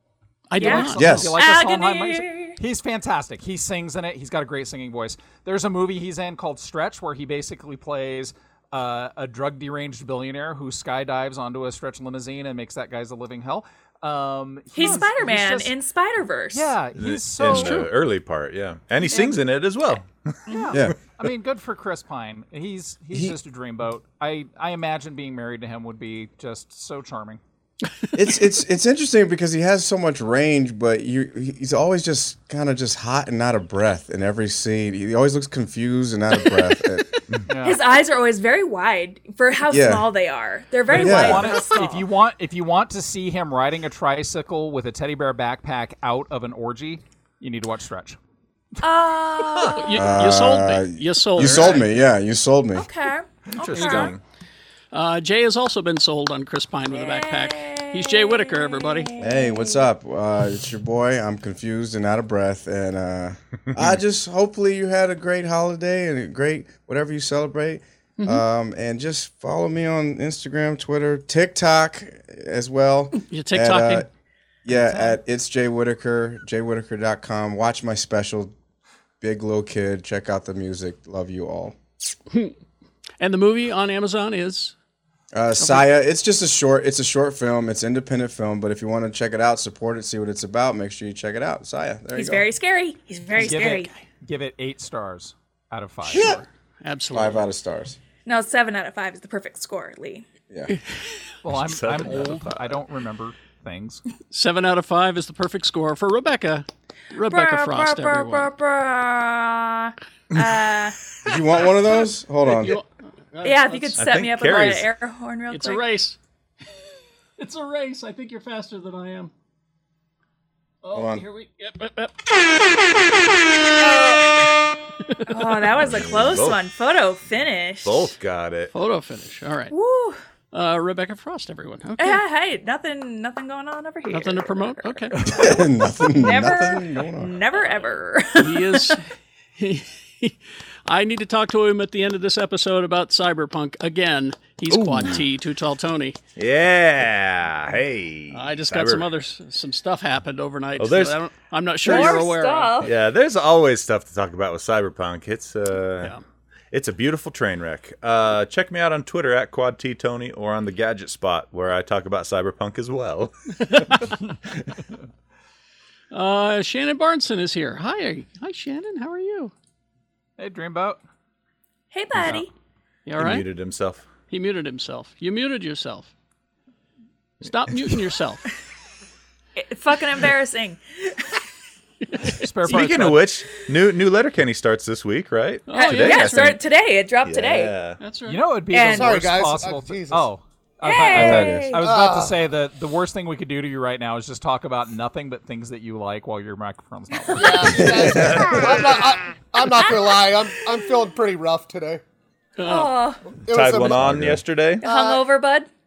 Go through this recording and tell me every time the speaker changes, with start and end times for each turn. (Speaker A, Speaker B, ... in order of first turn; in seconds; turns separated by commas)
Speaker A: 0.5-1.1, Speaker B: 0.6-15.7, Speaker C: 0.6-2.6, Speaker D: 0.9-1.4, Speaker C: 14.7-16.8, Speaker B: 16.5-17.9, Speaker E: 16.9-20.4, Speaker A: 17.5-17.9, Speaker B: 19.1-19.4, Speaker B: 20.5-27.4, Speaker C: 20.5-20.8, Speaker D: 28.1-37.2, Speaker B: 37.5-37.8, Speaker C: 37.6-42.1, Speaker D: 39.7-40.1, Speaker B: 40.9-48.2, Speaker D: 40.9-41.6, Speaker C: 48.8-50.1, Speaker A: 49.7-51.8, Speaker D: 49.9-52.9, Speaker C: 52.7-54.1, Speaker E: 53.5-54.2, Speaker A: 53.8-54.1, Speaker A: 54.9-59.1, Speaker C: 56.9-59.9, Speaker D: 59.2-74.1, Speaker A: 68.2-68.4, Speaker A: 73.3-74.1, Speaker D: 74.6-78.5, Speaker A: 74.7-75.1, Speaker D: 79.2-81.8, Speaker A: 82.3-82.5, Speaker A: 83.2-84.7, Speaker D: 85.3-92.5, Speaker A: 85.6-85.9, Speaker C: 92.1-93.9, Speaker B: 93.3-96.4, Speaker D: 96.0-96.4, Speaker A: 96.1-97.5, Speaker D: 97.1-98.0, Speaker C: 98.2-100.2, Speaker B: 101.4-104.0, Speaker E: 101.5-102.7, Speaker A: 104.3-108.5, Speaker C: 107.2-111.0, Speaker D: 111.2-112.8, Speaker A: 112.4-114.1, Speaker C: 113.4-115.8, Speaker E: 114.0-114.9, Speaker A: 115.5-116.2, Speaker A: 117.4-119.3, Speaker A: 120.8-122.8, Speaker D: 120.9-121.2, Speaker A: 125.0-125.6, Speaker C: 125.3-128.1, Speaker E: 125.8-126.6, Speaker E: 127.8-128.7, Speaker A: 128.7-129.7, Speaker C: 129.7-130.2, Speaker A: 130.5-132.2, Speaker C: 132.0-139.0, Speaker A: 134.1-135.2, Speaker D: 135.2-137.4, Speaker A: 138.4-146.2, Speaker E: 144.7-145.2, Speaker E: 146.4-149.1, Speaker A: 148.3-152.9, Speaker E: 150.8-151.2, Speaker C: 151.8-152.9, Speaker E: 152.8-156.1, Speaker E: 156.7-164.1, Speaker A: 163.6-164.1, Speaker A: 166.1-169.5, Speaker B: 170.4-171.0, Speaker C: 171.9-172.5, Speaker A: 173.1-173.5, Speaker E: 173.2-174.1, Speaker A: 174.3-176.1, Speaker A: 177.4-178.5, Speaker C: 179.6-181.4, Speaker A: 182.0-182.4, Speaker B: 182.3-183.3, Speaker E: 182.7-186.6, Speaker A: 185.7-186.5, Speaker C: 185.7-187.8, Speaker E: 187.2-188.0, Speaker A: 188.0-188.4, Speaker B: 188.2-197.9, Speaker C: 188.7-189.2, Speaker F: 188.8-190.3, Speaker C: 190.8-191.9, Speaker D: 191.1-191.8, Speaker F: 191.8-192.4, Speaker F: 197.3-202.0, Speaker D: 197.7-198.6, Speaker E: 198.1-198.8, Speaker A: 202.6-203.0, Speaker C: 202.6-203.9, Speaker F: 203.4-204.3, Speaker E: 203.4-204.8, Speaker C: 204.8-205.7, Speaker F: 204.8-205.2